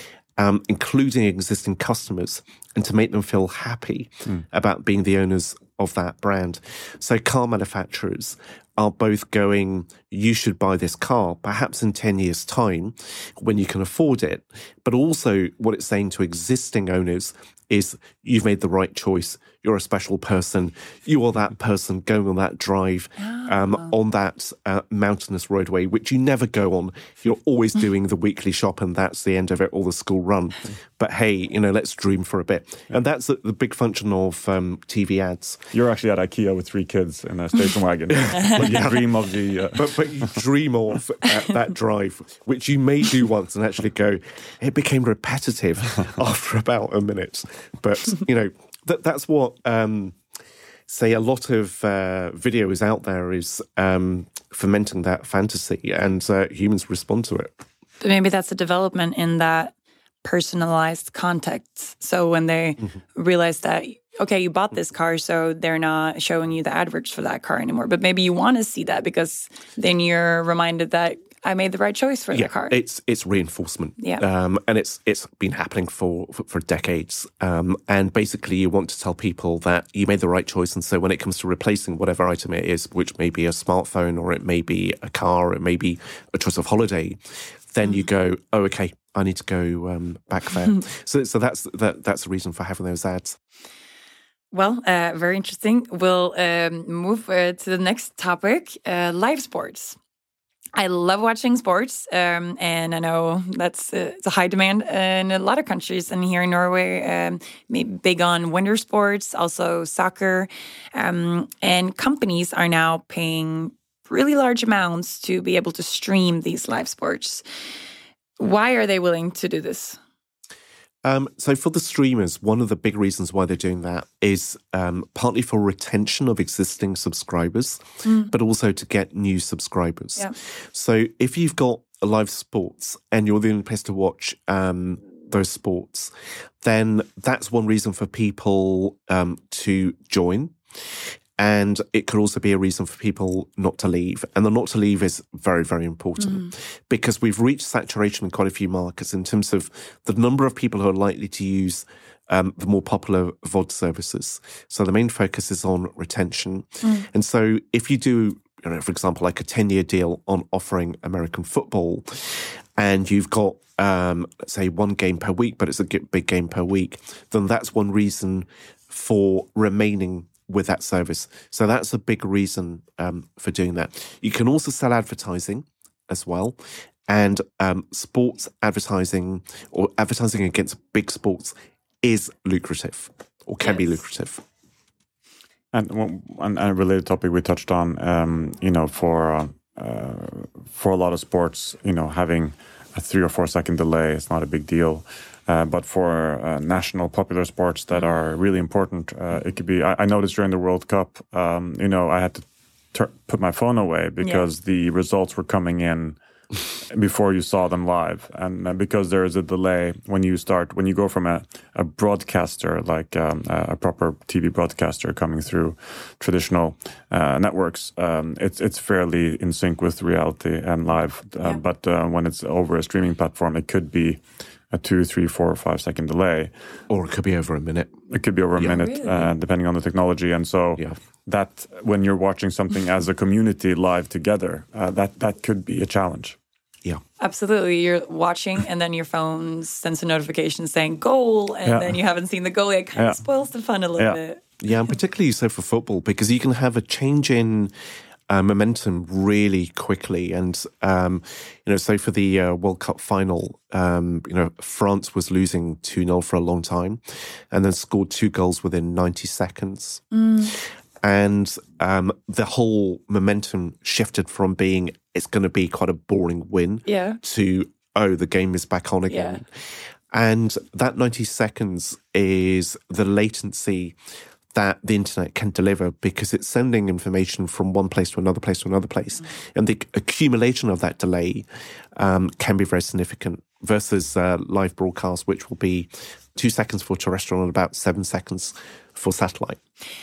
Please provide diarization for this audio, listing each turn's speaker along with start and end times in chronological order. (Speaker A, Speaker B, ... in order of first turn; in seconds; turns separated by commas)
Speaker A: 0.4-35.6, Speaker B: 23.2-23.9, Speaker C: 35.7-40.4, Speaker A: 38.3-39.0, Speaker A: 39.8-50.2, Speaker A: 50.9-57.6, Speaker B: 58.0-59.7, Speaker B: 60.2-72.8, Speaker A: 72.3-93.4, Speaker B: 94.5-100.0, Speaker B: 100.8-117.4, Speaker B: 118.4-120.0, Speaker A: 121.0-176.6, Speaker B: 128.0-128.3, Speaker B: 146.2-146.5, Speaker B: 156.8-157.1, Speaker A: 177.1-184.4, Speaker B: 183.6-183.9, Speaker C: 185.7-206.2, Speaker B: 204.2-204.5, Speaker C: 206.8-226.5, Speaker A: 226.9-227.9, Speaker C: 228.1-236.4, Speaker B: 228.6-229.3, Speaker B: 237.2-244.5, Speaker C: 241.7-242.0, Speaker A: 244.6-247.7, Speaker A: 248.3-260.0, Speaker B: 260.1-260.6, Speaker A: 261.0-273.9, Speaker B: 266.9-267.2, Speaker B: 269.1-269.4, Speaker A: 274.5-289.6